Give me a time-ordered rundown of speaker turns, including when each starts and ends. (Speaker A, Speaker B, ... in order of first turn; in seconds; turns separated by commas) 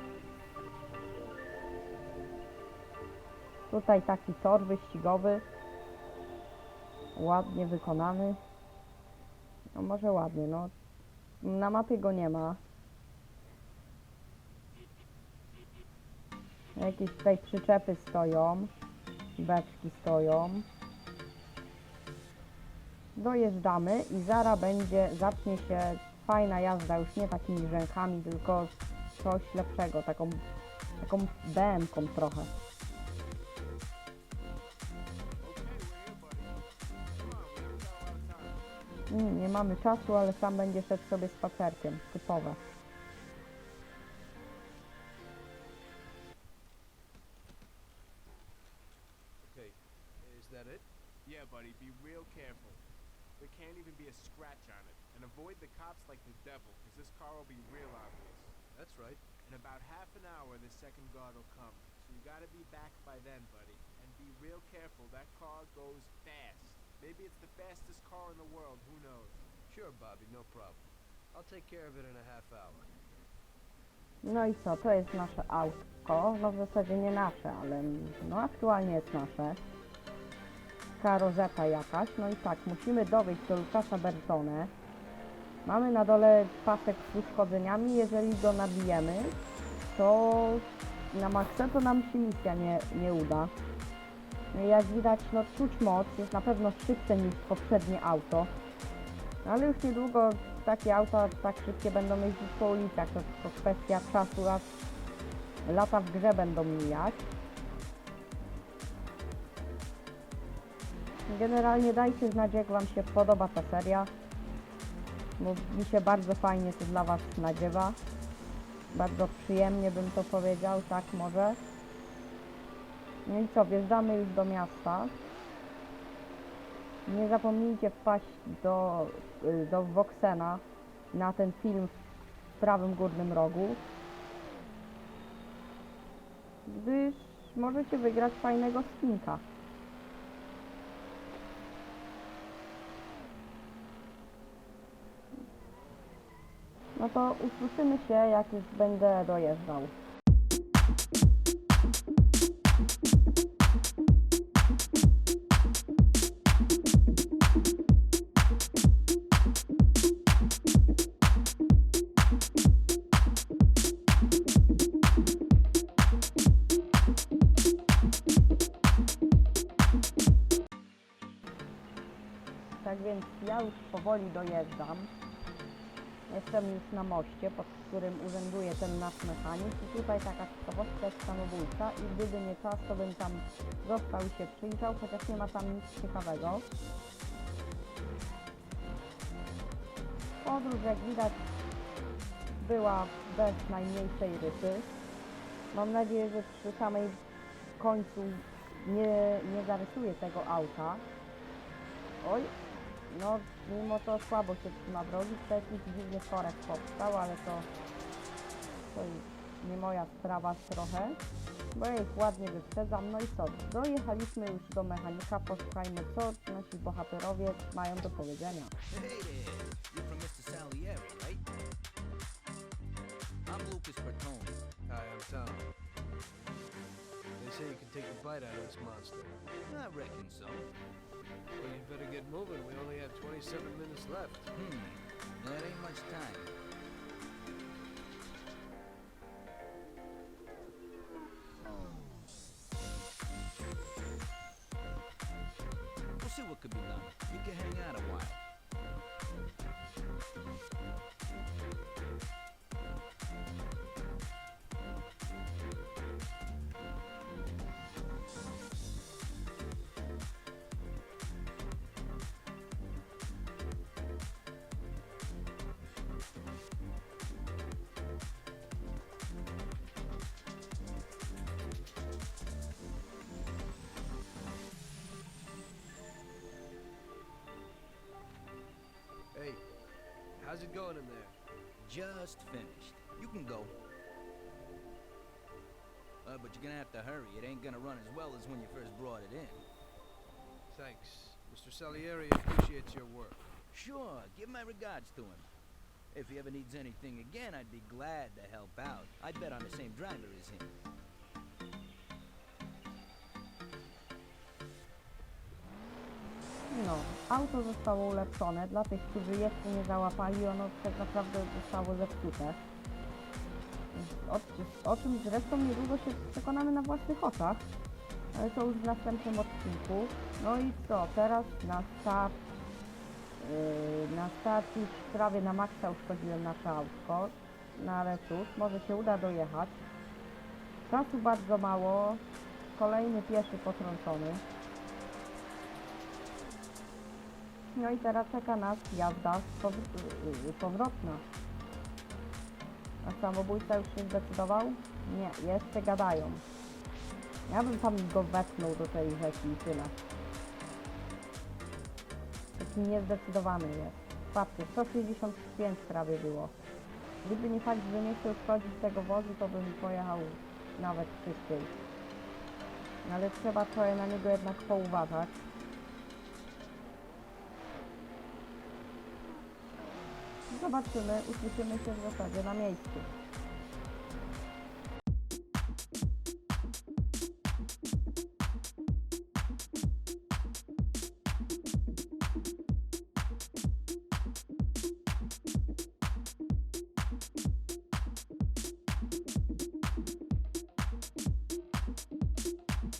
Speaker A: 3.7-5.4, Speaker A: 7.1-8.4, Speaker A: 9.7-10.7, Speaker A: 11.4-12.6, Speaker A: 16.8-18.7, Speaker A: 19.4-20.7, Speaker A: 23.1-30.4, Speaker A: 31.0-32.5, Speaker B: 35.4-38.6, Speaker A: 39.1-42.6, Speaker C: 49.4-50.9, Speaker B: 51.2-52.8, Speaker B: 53.4-58.5, Speaker C: 58.7-59.2, Speaker B: 59.4-69.4, Speaker C: 69.7-72.9, Speaker A: 74.2-79.6, Speaker A: 81.0-84.7, Speaker A: 85.6-89.3, Speaker A: 89.9-93.5, Speaker A: 94.5-98.5, Speaker A: 99.4-104.7, Speaker A: 105.6-107.2, Speaker A: 111.3-114.1, Speaker A: 115.4-118.0, Speaker A: 118.9-121.6, Speaker A: 123.2-125.1, Speaker A: 127.0-131.9, Speaker A: 132.6-133.8, Speaker A: 136.7-139.4, Speaker A: 146.9-149.9, Speaker A: 172.8-175.1, Speaker A: 176.3-186.7, Speaker A: 190.4-191.4, Speaker A: 192.6-194.9, Speaker A: 195.7-197.2, Speaker A: 197.8-201.0, Speaker A: 202.2-202.5, Speaker A: 203.1-207.7, Speaker A: 208.9-211.2, Speaker A: 211.7-218.7, Speaker D: 218.9-221.5, Speaker D: 223.5-224.6, Speaker C: 224.9-225.7, Speaker C: 227.4-229.4, Speaker D: 229.7-230.7, Speaker C: 231.6-234.5, Speaker D: 234.5-236.5, Speaker D: 246.2-248.4, Speaker C: 279.3-279.6, Speaker C: 280.4-281.3, Speaker D: 281.8-283.7, Speaker D: 286.2-289.6, Speaker C: 290.7-293.5, Speaker D: 293.7-295.5, Speaker D: 296.1-300.7, Speaker A: 306.7-312.6, Speaker A: 313.9-317.7, Speaker A: 318.3-322.4, Speaker A: 323.4-329.8, Speaker A: 330.9-332.2, Speaker A: 332.7-334.4, Speaker A: 337.7-341.2, Speaker A: 343.0-346.4, Speaker A: 347.5-349.9, Speaker A: 352.6-356.5, Speaker A: 357.2-361.7, Speaker A: 363.0-365.4, Speaker A: 370.5-373.1